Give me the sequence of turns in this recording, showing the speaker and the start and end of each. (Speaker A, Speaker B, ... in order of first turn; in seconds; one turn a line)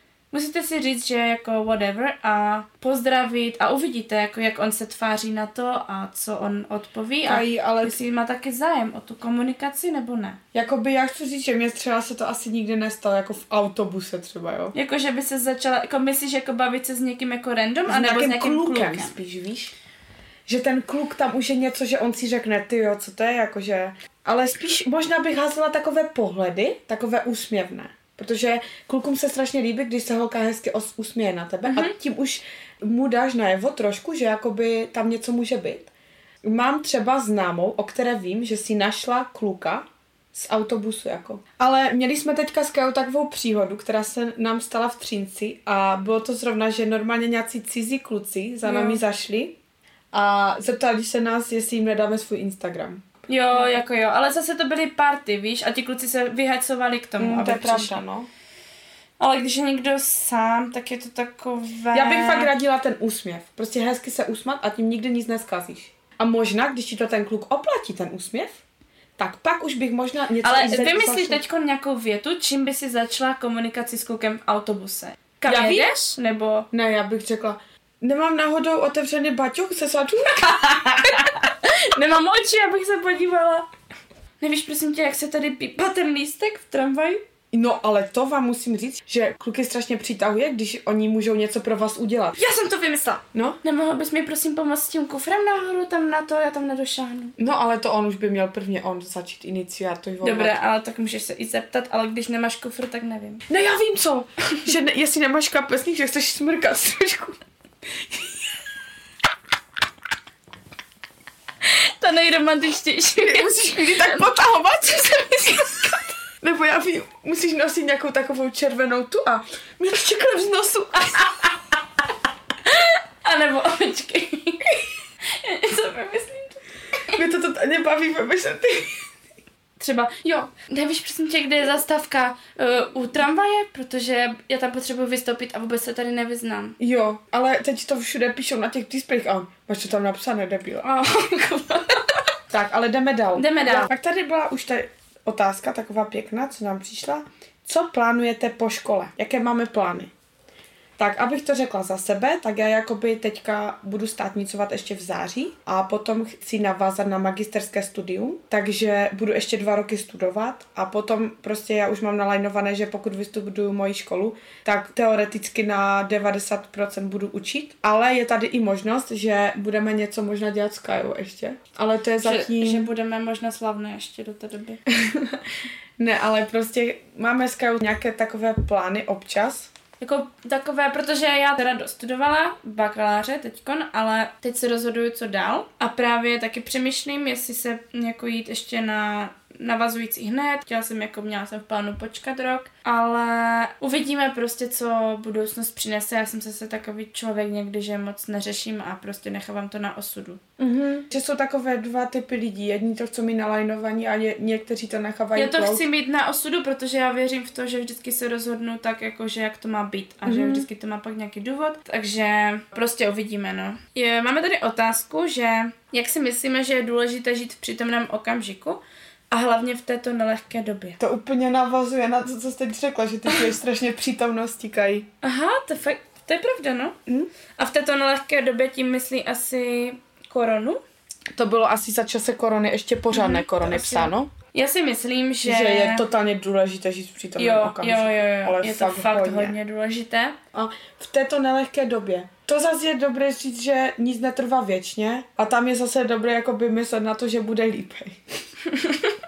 Speaker A: 0.3-10.4
Speaker B: 7.2-8.0
Speaker B: 10.5-14.7
Speaker A: 14.7-19.2
Speaker B: 17.9-19.8
Speaker B: 20.5-35.9
Speaker A: 31.7-31.9
Speaker B: 36.4-49.6
Speaker A: 48.6-49.0
Speaker B: 50.1-53.7
Speaker A: 53.3-58.0
Speaker B: 57.2-58.3
Speaker A: 59.2-62.5
Speaker B: 61.9-68.6
Speaker B: 69.2-71.4
Speaker A: 70.4-76.7
Speaker B: 75.5-75.9
Speaker B: 76.7-81.2
Speaker A: 80.5-83.7
Speaker A: 84.4-87.2
Speaker B: 87.5-92.4
Speaker A: 92.4-97.3
Speaker B: 93.3-93.6
Speaker B: 97.4-100.6
Speaker A: 100.2-103.5
Speaker B: 103.5-107.4
Speaker A: 111.6-114.2
Speaker B: 113.2-121.3
Speaker A: 115.2-116.0
Speaker A: 122.7-124.7
Speaker A: 125.4-126.6
Speaker B: 127.1-129.1
Speaker A: 129.8-136.8
Speaker B: 136.8-140.9
Speaker A: 140.8-142.2
Speaker B: 142.5-150.1
Speaker A: 143.4-143.9
Speaker B: 151.0-172.9
Speaker A: 172.2-174.8
Speaker B: 174.9-175.5
Speaker B: 176.0-179.7
Speaker A: 180.0-200.4
Speaker B: 200.6-205.8
Speaker A: 205.3-221.0
Speaker B: 210.2-210.7
Speaker B: 221.0-225.1
Speaker A: 225.2-227.0
Speaker A: 227.6-230.8
Speaker B: 231.4-234.3
Speaker A: 233.1-236.0
Speaker B: 235.4-239.6
Speaker A: 237.4-240.4
Speaker B: 240.5-248.2
Speaker A: 248.7-249.2